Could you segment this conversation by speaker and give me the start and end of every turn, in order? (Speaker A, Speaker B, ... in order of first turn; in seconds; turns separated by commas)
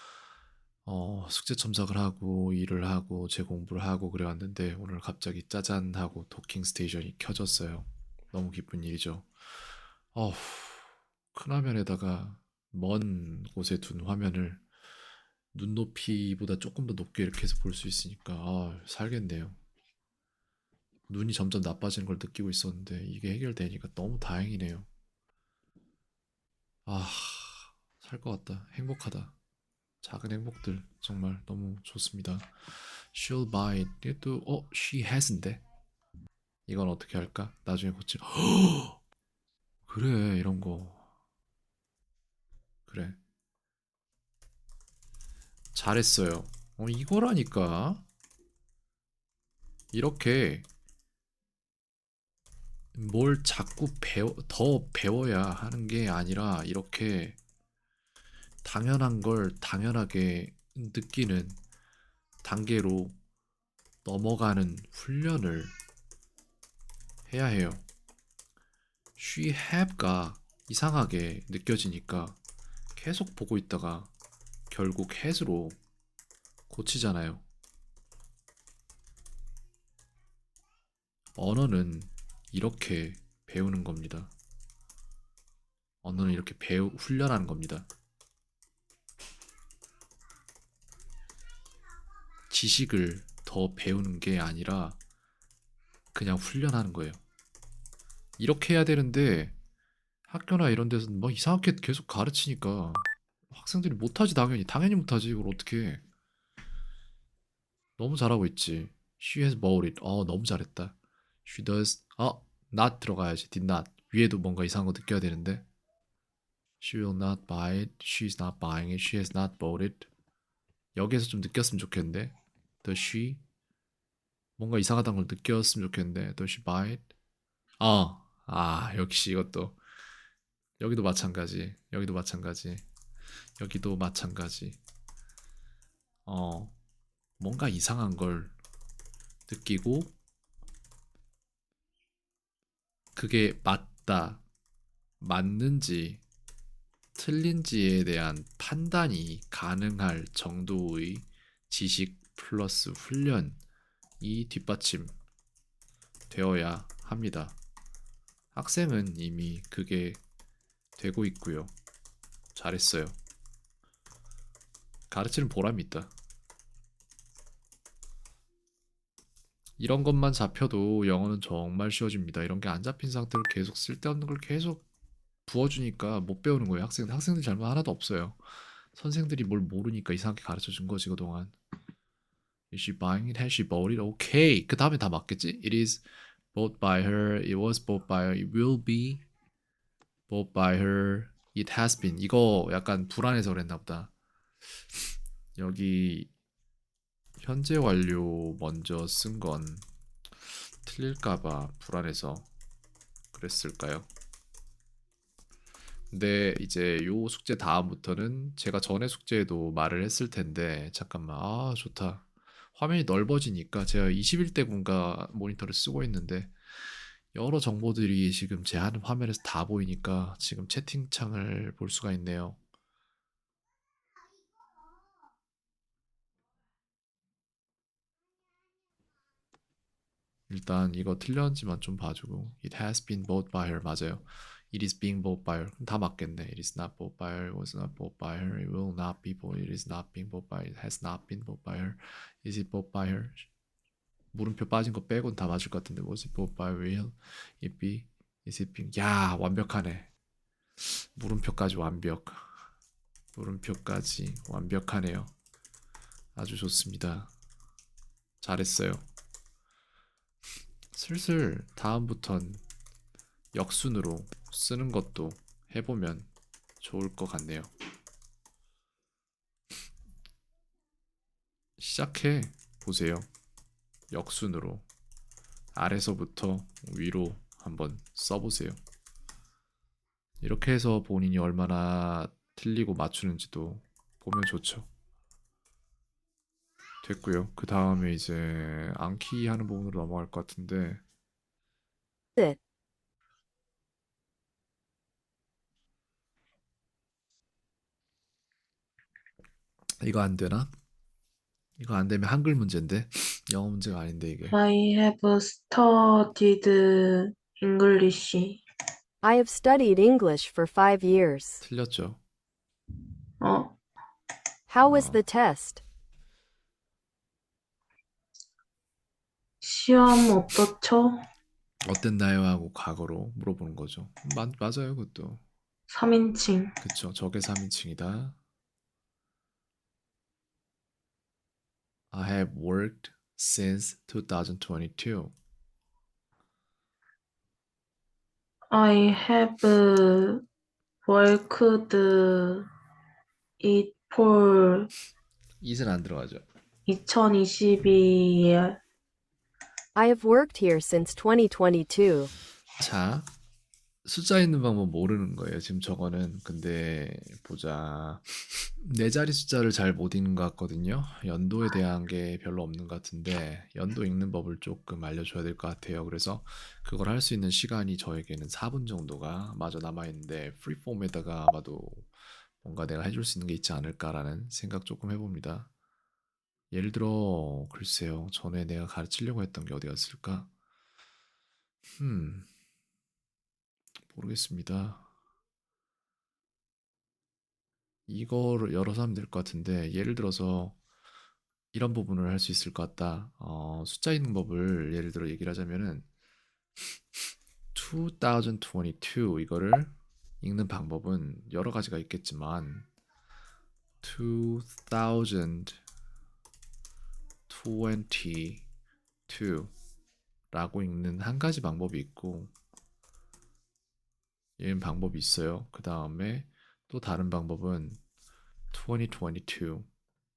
Speaker A: 0.9-9.3, Speaker A: 10.1-14.6, Speaker A: 15.5-19.6, Speaker A: 21.1-24.9, Speaker A: 26.9-29.4, Speaker A: 30.0-35.6, Speaker A: 36.7-39.0, Speaker A: 39.9-41.1, Speaker A: 42.9-43.2, Speaker A: 45.7-48.1, Speaker A: 49.9-50.7, Speaker A: 53.0-57.4, Speaker A: 58.6-61.6, Speaker A: 62.4-63.2, Speaker A: 64.0-65.8, Speaker A: 67.3-67.9, Speaker A: 69.2-72.4, Speaker A: 73.0-74.1, Speaker A: 74.7-75.8, Speaker A: 76.7-77.5, Speaker A: 81.4-84.3, Speaker A: 86.0-87.9, Speaker A: 92.5-95.0, Speaker A: 96.1-97.2, Speaker A: 98.4-99.6, Speaker A: 100.3-106.0, Speaker A: 108.0-115.7, Speaker A: 116.8-120.1, Speaker A: 121.0-123.4, Speaker A: 124.6-127.1, Speaker A: 127.8-129.8, Speaker A: 130.8-132.9, Speaker A: 133.6-134.8, Speaker A: 136.3-136.8, Speaker A: 137.4-138.6, Speaker A: 139.5-140.1, Speaker A: 143.2-144.4, Speaker A: 145.2-146.2, Speaker A: 147.2-153.6, Speaker A: 154.2-155.1, Speaker A: 156.3-157.6, Speaker A: 158.5-160.2, Speaker A: 161.0-161.7, Speaker A: 162.6-163.2, Speaker A: 165.1-166.1, Speaker A: 169.8-174.8, Speaker A: 175.5-181.6, Speaker A: 182.7-189.2, Speaker A: 190.3-194.1, Speaker A: 195.6-196.3, Speaker A: 197.4-199.9, Speaker A: 200.4-202.5, Speaker A: 203.3-204.1, Speaker A: 206.1-222.6, Speaker A: 230.5-243.5, Speaker A: 244.3-250.1, Speaker A: 250.8-252.7, Speaker A: 253.4-255.3, Speaker A: 256.4-257.3, Speaker A: 258.4-259.1, Speaker A: 260.9-262.6, Speaker A: 263.5-267.7, Speaker A: 271.8-273.3, Speaker A: 274.1-274.9, Speaker A: 275.8-278.8, Speaker A: 280.4-284.9, Speaker A: 287.0-291.0, Speaker A: 300.0-300.7, Speaker A: 301.8-304.6, Speaker B: 304.5-308.6, Speaker C: 309.2-311.6, Speaker A: 311.6-312.2, Speaker B: 313.4-313.8, Speaker C: 314.7-315.8, Speaker A: 314.8-315.2, Speaker B: 319.6-321.2, Speaker A: 321.9-325.4, Speaker B: 325.9-326.8, Speaker A: 326.8-328.4, Speaker A: 332.1-335.4, Speaker B: 338.7-340.4, Speaker B: 341.1-342.7, Speaker B: 343.6-344.9, Speaker A: 345.6-346.4, Speaker B: 346.9-348.8, Speaker C: 349.9-352.3, Speaker A: 352.8-353.3, Speaker A: 354.1-375.7, Speaker A: 376.7-380.5, Speaker A: 382.0-382.5, Speaker A: 384.1-385.1, Speaker A: 388.1-390.8, Speaker A: 391.7-396.1, Speaker A: 397.7-402.9, Speaker A: 404.0-405.8, Speaker A: 407.5-408.7, Speaker A: 409.3-409.7, Speaker A: 410.5-412.5, Speaker A: 414.6-418.0, Speaker A: 418.7-419.9